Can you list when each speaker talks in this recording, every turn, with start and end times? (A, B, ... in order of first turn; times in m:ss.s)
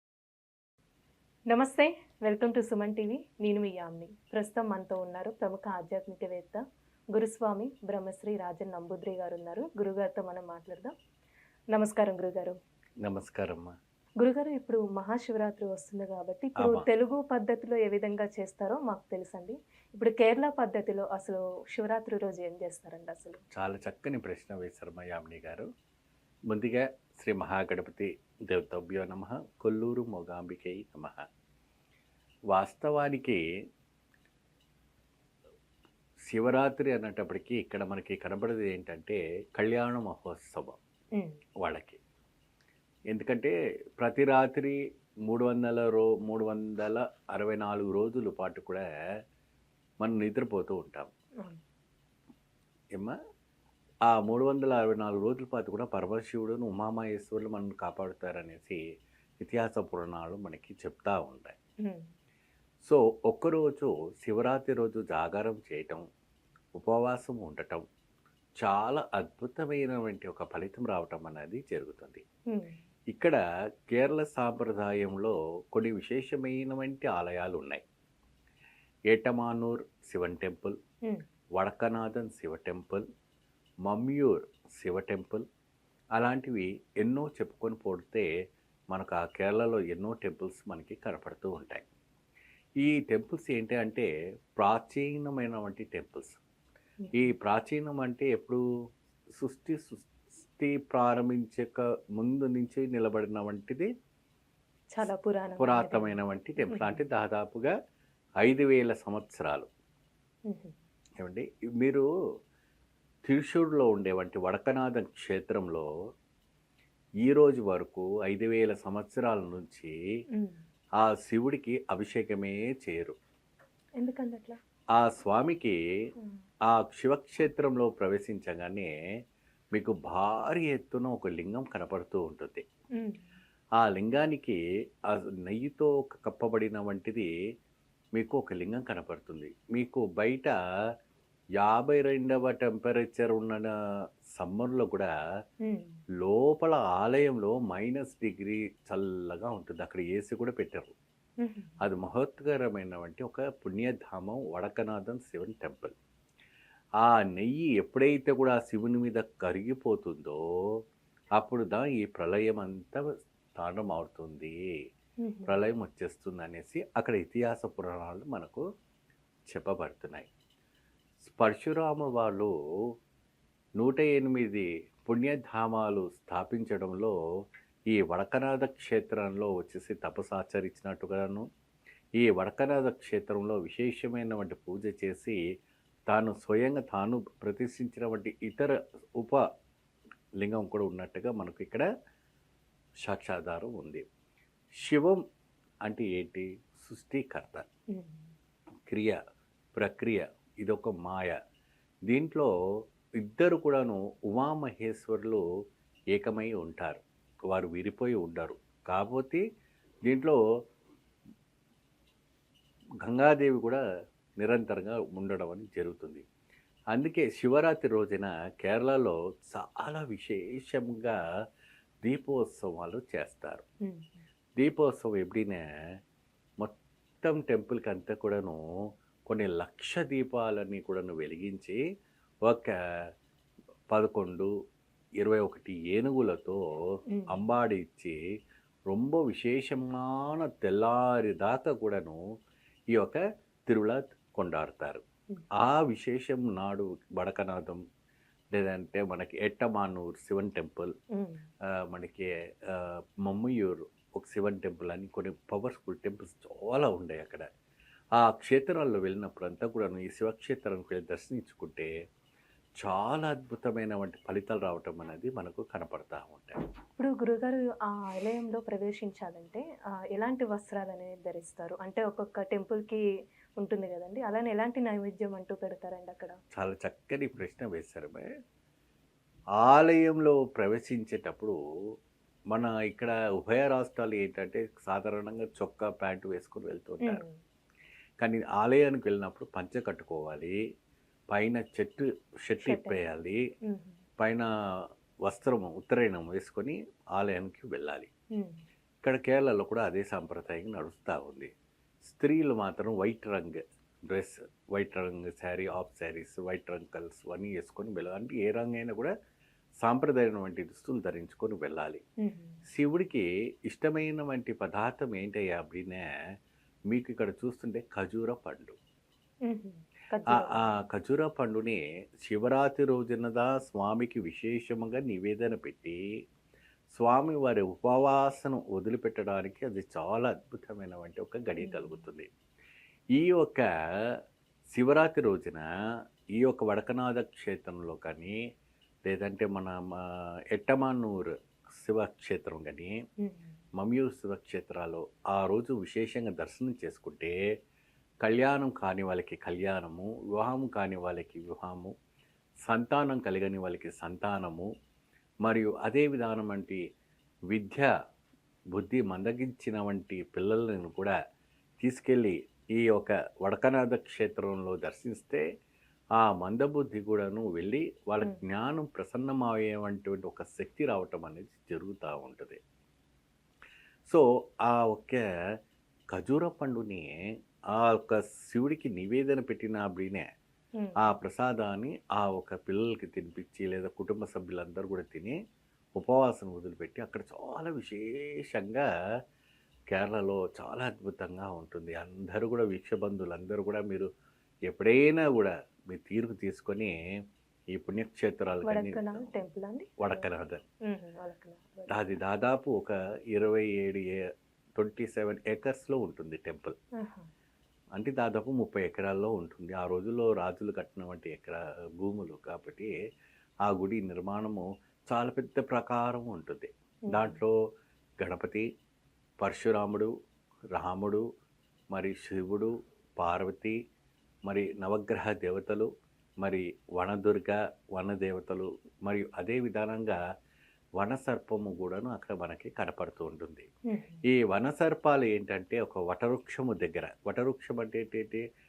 0:01.5-0:06.6 A
0:07.1-0:10.9 A
0:11.7-0:12.6 A
0:13.0-0:13.7 B
0:14.2-0:23.4 A
0:16.6-0:16.9 B
0:23.5-0:25.7 B
0:26.5-0:31.2 B
0:32.5-0:33.4 B
0:36.3-0:40.8 B
0:41.6-0:42.0 B
0:43.1-0:48.8 B
0:50.0-0:51.1 B
0:54.1-0:58.8 B
0:59.4-1:01.6 B
1:02.8-1:06.0 B
1:06.8-1:07.8 B
1:08.6-1:12.2 B
1:13.1-1:13.4 B
1:13.9-1:17.8 B
1:19.1-1:20.8 B
1:21.6-1:23.0 B
1:23.9-1:25.4 B
1:26.2-1:28.3 B
1:28.9-1:31.8 B
1:32.8-1:36.4 B
1:37.0-1:37.3 A
1:37.1-1:38.6 B
1:39.4-1:43.9 B
1:44.9-1:47.0 A
1:45.6-1:47.7 B
1:48.4-1:49.7 B
1:50.5-1:50.7 A
1:51.2-1:52.1 B
1:53.2-1:55.9 B
1:57.2-1:59.9 B
2:01.0-2:03.2 B
2:04.0-2:04.6 A
2:05.0-2:05.8 B
2:06.7-2:08.9 B
2:09.7-2:12.6 B
2:13.8-2:14.6 B
2:15.1-2:17.3 B
2:18.2-2:20.5 B
2:21.6-2:23.7 B
2:24.4-2:25.1 B
2:25.6-2:26.0 A
2:26.2-2:30.9 B
2:31.4-2:31.8 A
2:31.8-2:35.9 B
2:37.0-2:40.4 B
2:41.4-2:43.0 B
2:43.6-2:44.5 B
2:45.2-2:45.6 A
2:45.4-2:48.6 B
2:49.5-2:50.3 B
2:51.2-2:52.5 B
2:53.8-2:57.1 B
2:57.9-3:01.4 B
3:02.2-3:05.4 B
3:06.1-3:09.4 B
3:10.4-3:11.8 B
3:13.0-3:14.0 B
3:14.8-3:15.2 B
3:15.9-3:17.6 B
3:17.9-3:18.2 A
3:18.9-3:19.2 B
3:19.7-3:21.4 B
3:22.1-3:22.5 B
3:23.2-3:25.4 B
3:26.1-3:29.4 B
3:30.0-3:30.4 B
3:33.0-3:33.8 B
3:34.4-3:36.2 B
3:36.9-3:41.2 B
3:42.0-3:43.6 B
3:43.8-3:44.1 A
3:44.6-3:45.6 B
3:46.6-3:48.6 B
3:49.3-3:51.8 B
3:52.4-3:52.7 B
3:53.9-3:54.5 B
3:55.2-3:56.6 B
3:57.3-3:58.2 B
3:58.9-4:02.2 B
4:02.9-4:05.0 B
4:05.6-4:07.8 B
4:08.5-4:10.9 B
4:11.1-4:11.4 A
4:11.8-4:17.5 B
4:18.2-4:21.9 B
4:22.8-4:26.6 B
4:27.0-4:29.6 A
4:30.1-4:33.0 A
4:33.6-4:36.4 A
4:36.5-4:38.3 B
4:39.6-4:41.6 B
4:42.5-4:47.2 B
4:47.0-4:47.4 A
4:48.2-4:50.6 B
4:51.3-4:53.4 B
4:52.6-4:53.0 A
4:53.7-4:54.0 A
4:54.2-4:58.1 B
4:58.4-4:58.6 A
4:59.0-5:01.5 B
5:02.0-5:09.1 B
5:09.8-5:12.0 B
5:12.2-5:12.6 A
5:12.7-5:16.1 B
5:16.9-5:18.8 B
5:19.5-5:20.8 A
5:20.3-5:26.0 B
5:26.9-5:32.3 B
5:31.6-5:32.0 A
5:33.2-5:34.2 B
5:34.7-5:35.6 B
5:36.4-5:38.4 B
5:39.1-5:42.9 B
5:43.2-5:43.6 A
5:43.8-5:47.3 B
5:48.2-5:51.9 B
5:52.7-5:54.7 B
5:55.4-5:56.8 B
5:57.5-5:57.9 B
5:58.7-6:01.1 B
6:01.8-6:05.4 B
6:06.2-6:12.6 B
6:14.1-6:15.2 B
6:16.1-6:17.1 B
6:17.7-6:20.2 B
6:20.8-6:21.1 A
6:21.0-6:25.4 B
6:26.0-6:28.9 B
6:29.9-6:34.1 B
6:34.7-6:36.9 B
6:37.7-6:39.3 B
6:38.6-6:40.3 A
6:40.0-6:40.6 B
6:40.9-6:42.0 A
6:41.9-6:44.2 B
6:44.8-6:46.8 B
6:47.0-6:47.3 A
6:48.0-6:52.9 B
6:53.6-6:57.6 B
6:57.1-6:57.4 A
6:58.2-6:58.6 B
6:59.4-7:00.1 B
7:00.7-7:01.2 B
7:01.9-7:03.8 B
7:04.5-7:05.9 B
7:06.4-7:10.2 B
7:11.0-7:13.7 B
7:13.9-7:14.2 A
7:14.3-7:18.4 B